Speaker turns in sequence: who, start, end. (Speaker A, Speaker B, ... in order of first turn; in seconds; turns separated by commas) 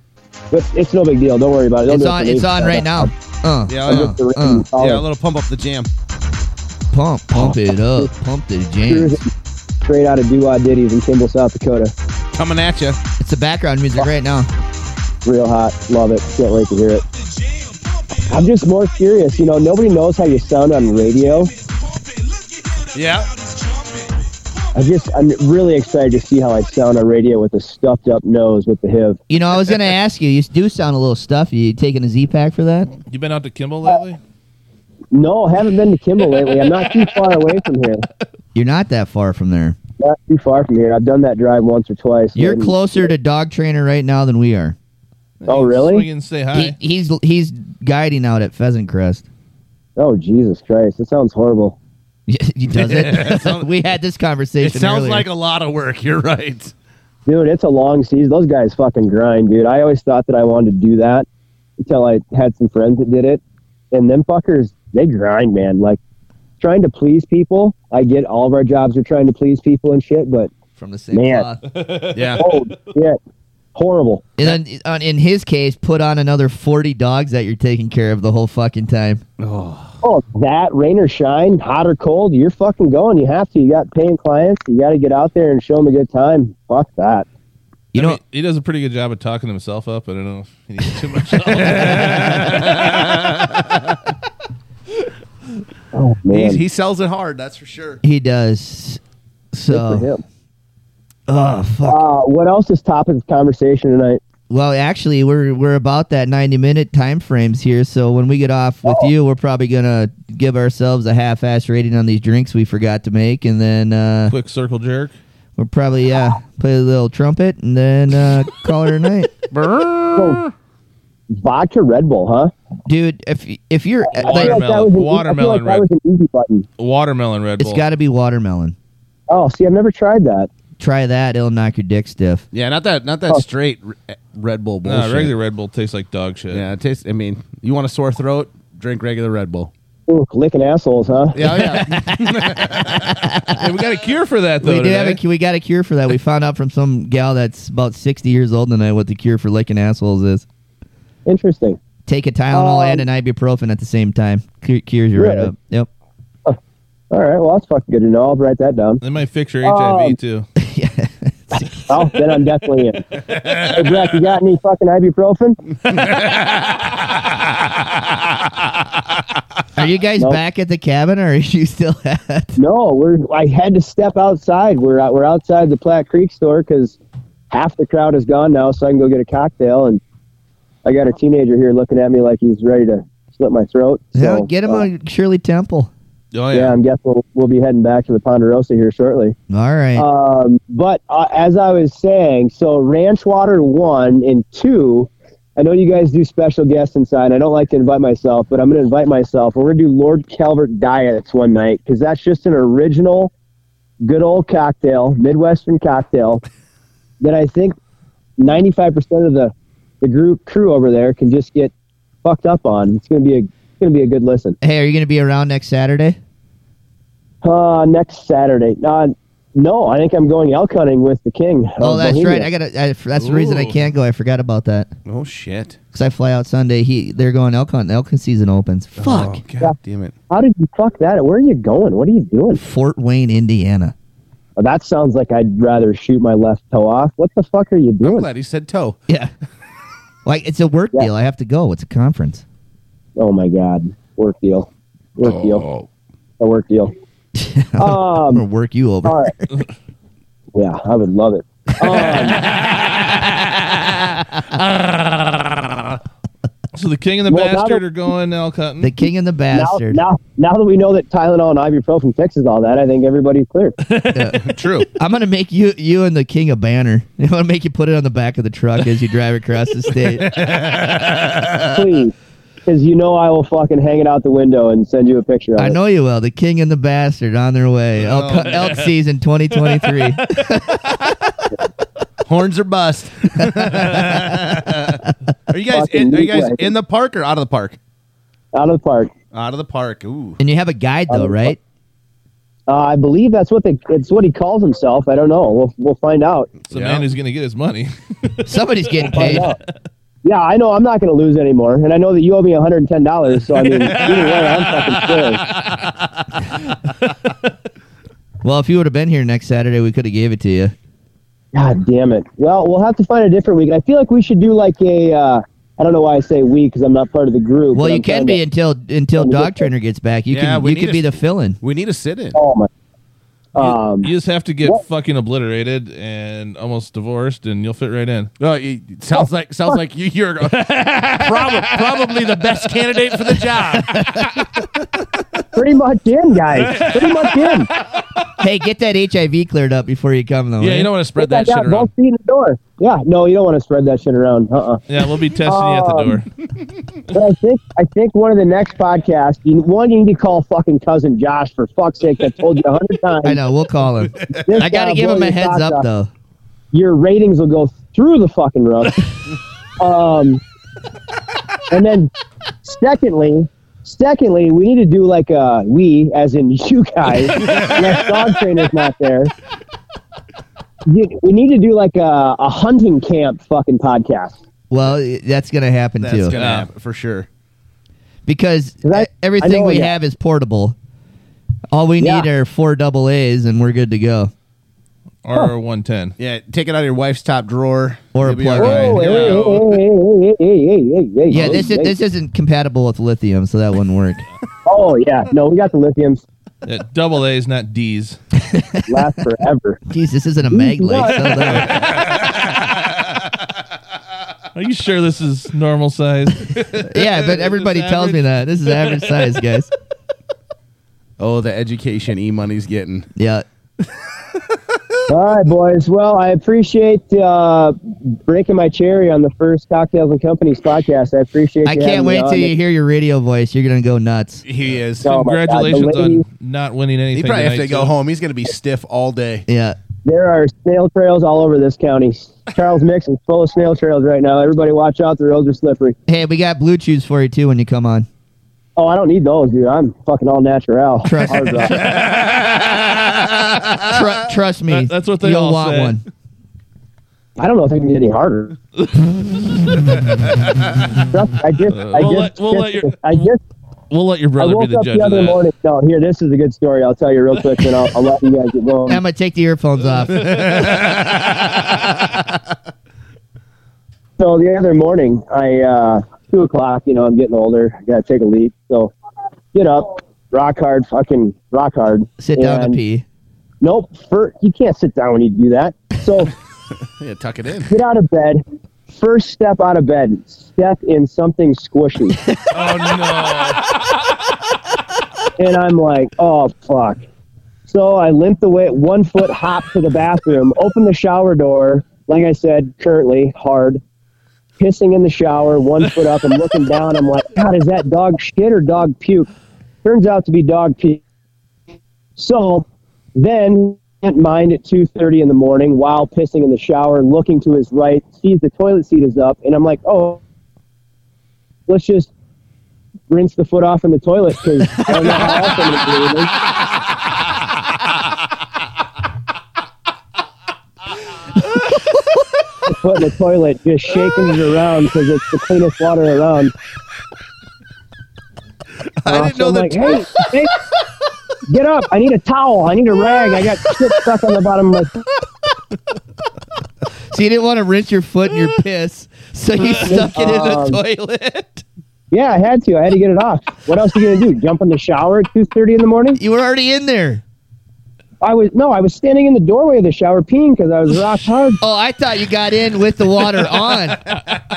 Speaker A: 0.5-3.1, Speaker B: 1.9-4.7, Speaker C: 3.7-4.2, Speaker A: 3.9-5.0, Speaker C: 4.8-5.9, Speaker B: 6.9-9.2, Speaker A: 7.4-8.1, Speaker A: 8.9-9.3, Speaker A: 9.8-11.9, Speaker C: 12.3-13.0, Speaker B: 13.2-14.5, Speaker A: 15.2-17.0, Speaker A: 18.3-21.5, Speaker C: 22.9-23.3, Speaker A: 24.8-29.2, Speaker B: 29.3-33.0, Speaker D: 33.1-34.2, Speaker A: 35.1-38.0, Speaker B: 38.5-39.8, Speaker A: 40.0-42.8, Speaker B: 42.4-44.8, Speaker D: 45.4-46.8, Speaker A: 45.5-46.1, Speaker B: 46.5-49.3, Speaker A: 50.0-51.8, Speaker B: 52.3-55.3, Speaker C: 52.7-53.7, Speaker C: 54.6-56.7, Speaker A: 57.3-61.3, Speaker A: 61.8-63.4, Speaker A: 63.9-66.0, Speaker A: 66.6-70.5, Speaker B: 70.8-71.6, Speaker A: 71.1-71.5, Speaker D: 71.8-72.2, Speaker C: 72.1-72.5, Speaker A: 72.4-73.2, Speaker A: 73.8-74.2, Speaker B: 74.4-79.2, Speaker C: 79.4-80.0, Speaker A: 80.0-87.3, Speaker B: 87.9-88.2, Speaker D: 88.0-92.9, Speaker C: 91.7-93.2, Speaker A: 95.9-96.6, Speaker C: 96.3-98.0, Speaker B: 98.0-99.0, Speaker B: 99.5-100.1, Speaker A: 99.7-100.2, Speaker B: 101.3-102.0, Speaker A: 101.8-104.2, Speaker B: 104.5-114.3, Speaker D: 114.3-115.2, Speaker B: 115.6-119.3, Speaker C: 119.5-120.4, Speaker A: 121.3-122.5, Speaker B: 122.9-124.6, Speaker D: 124.2-125.9, Speaker A: 124.2-126.7, Speaker D: 126.8-127.8, Speaker B: 127.6-128.8, Speaker A: 129.3-130.5, Speaker B: 130.8-132.5, Speaker C: 132.5-135.3, Speaker D: 134.8-136.7, Speaker C: 136.5-139.7, Speaker A: 140.1-141.4, Speaker C: 141.3-144.0, Speaker B: 141.5-143.6, Speaker D: 143.6-145.2, Speaker B: 144.6-150.4, Speaker A: 151.3-151.8, Speaker B: 152.1-155.9, Speaker A: 152.5-153.0, Speaker A: 155.2-155.5, Speaker A: 157.1-159.0, Speaker D: 159.0-160.5, Speaker A: 159.6-160.2, Speaker B: 160.6-162.0, Speaker A: 161.9-165.6, Speaker C: 166.0-166.3, Speaker B: 169.8-172.6, Speaker A: 172.6-177.0, Speaker A: 177.5-180.0, Speaker A: 180.8-184.8, Speaker B: 184.2-185.9, Speaker C: 186.3-186.8, Speaker A: 186.5-189.4, Speaker B: 189.5-190.1, Speaker A: 190.0-203.3, Speaker A: 204.0-206.4, Speaker A: 207.2-207.8, Speaker A: 208.4-211.7, Speaker A: 212.2-214.6, Speaker B: 214.6-216.2, Speaker A: 217.4-222.5, Speaker B: 221.8-224.9, Speaker D: 223.2-223.8, Speaker C: 225.1-225.8, Speaker B: 225.9-229.4, Speaker C: 229.0-230.1, Speaker A: 230.3-232.6, Speaker B: 232.6-233.9, Speaker A: 234.6-238.3, Speaker C: 238.0-239.0, Speaker B: 240.2-242.4, Speaker A: 243.2-245.6, Speaker C: 245.2-245.9, Speaker A: 246.4-246.9, Speaker B: 247.4-249.5, Speaker A: 247.8-248.4, Speaker A: 249.1-249.3, Speaker A: 250.6-252.4, Speaker D: 256.7-258.9, Speaker A: 257.3-257.8, Speaker B: 258.8-260.0, Speaker A: 259.5-263.8, Speaker B: 264.1-264.4, Speaker C: 264.4-264.9, Speaker B: 264.9-270.4, Speaker C: 270.2-271.6, Speaker A: 271.7-272.1, Speaker A: 272.7-275.8, Speaker B: 275.6-281.3, Speaker C: 278.1-278.7, Speaker C: 282.3-287.8, Speaker B: 283.6-284.5, Speaker A: 285.7-286.7, Speaker A: 288.5-289.1, Speaker C: 289.3-290.4, Speaker B: 290.4-291.6, Speaker A: 291.1-291.6, Speaker A: 292.7-296.6, Speaker C: 296.7-297.1, Speaker D: 296.7-299.5, Speaker B: 298.5-299.5, Speaker A: 299.1-299.6, Speaker A: 300.2-305.4, Speaker D: 303.8-305.9, Speaker B: 308.4-310.8, Speaker A: 311.5-318.4, Speaker B: 317.7-321.6, Speaker A: 319.2-319.7, Speaker C: 320.3-321.1, Speaker C: 321.6-322.4, Speaker A: 322.4-322.7, Speaker A: 323.6-324.1, Speaker D: 323.6-328.3, Speaker C: 328.4-334.2, Speaker D: 330.6-331.7, Speaker A: 335.6-337.7, Speaker B: 338.4-340.9, Speaker C: 340.6-341.9, Speaker A: 341.1-344.8, Speaker D: 344.9-346.3, Speaker A: 345.5-346.2, Speaker A: 347.1-353.4, Speaker B: 353.2-356.1, Speaker A: 354.3-355.8, Speaker A: 356.7-359.0, Speaker A: 359.8-360.4, Speaker A: 361.7-362.1, Speaker A: 362.6-369.3, Speaker C: 367.4-367.9, Speaker A: 370.9-374.4, Speaker B: 374.7-376.4, Speaker C: 376.0-377.3, Speaker D: 376.3-376.7, Speaker B: 378.3-380.8, Speaker A: 378.9-379.9, Speaker B: 381.7-384.3, Speaker A: 382.0-382.3, Speaker D: 385.2-386.1, Speaker C: 386.2-389.4, Speaker B: 388.1-388.9, Speaker D: 388.6-389.8, Speaker A: 388.6-391.9, Speaker B: 391.3-394.2, Speaker A: 394.7-396.2, Speaker D: 396.6-398.2, Speaker B: 398.4-399.1, Speaker A: 398.9-399.8, Speaker B: 399.9-401.9, Speaker A: 400.5-401.4, Speaker D: 404.6-409.0, Speaker B: 406.9-409.7, Speaker C: 411.2-413.1, Speaker B: 413.2-413.4, Speaker A: 415.1-422.5, Speaker B: 421.6-424.4, Speaker C: 424.5-425.1, Speaker A: 425.0-426.2, Speaker D: 425.1-427.9, Speaker C: 427.1-429.4, Speaker B: 429.5-429.8, Speaker A: 430.1-436.0, Speaker B: 436.1-438.1, Speaker A: 438.8-441.9, Speaker B: 441.0-441.8, Speaker B: 443.9-446.0, Speaker D: 444.7-446.0, Speaker A: 447.4-448.6, Speaker D: 448.8-449.1, Speaker A: 451.1-453.4, Speaker D: 451.7-453.3, Speaker D: 453.9-455.4, Speaker A: 454.4-459.0, Speaker B: 458.9-460.6, Speaker C: 460.5-461.0, Speaker A: 464.2-468.9, Speaker A: 469.5-472.8, Speaker B: 472.2-473.1, Speaker A: 473.6-476.3, Speaker C: 477.0-477.7, Speaker A: 477.7-482.2, Speaker C: 482.5-483.7, Speaker A: 485.4-487.0, Speaker A: 487.7-493.8, Speaker A: 494.6-499.3, Speaker A: 499.8-501.0, Speaker A: 502.2-510.2, Speaker A: 511.7-512.1, Speaker A: 513.1-516.3, Speaker B: 514.9-515.5, Speaker B: 521.5-522.0, Speaker A: 522.7-526.5, Speaker C: 529.0-530.2, Speaker A: 529.1-530.5, Speaker A: 531.5-535.0, Speaker B: 537.1-541.6, Speaker A: 539.9-540.8, Speaker A: 542.1-546.2, Speaker B: 546.2-547.2, Speaker A: 548.2-551.6, Speaker B: 551.6-554.0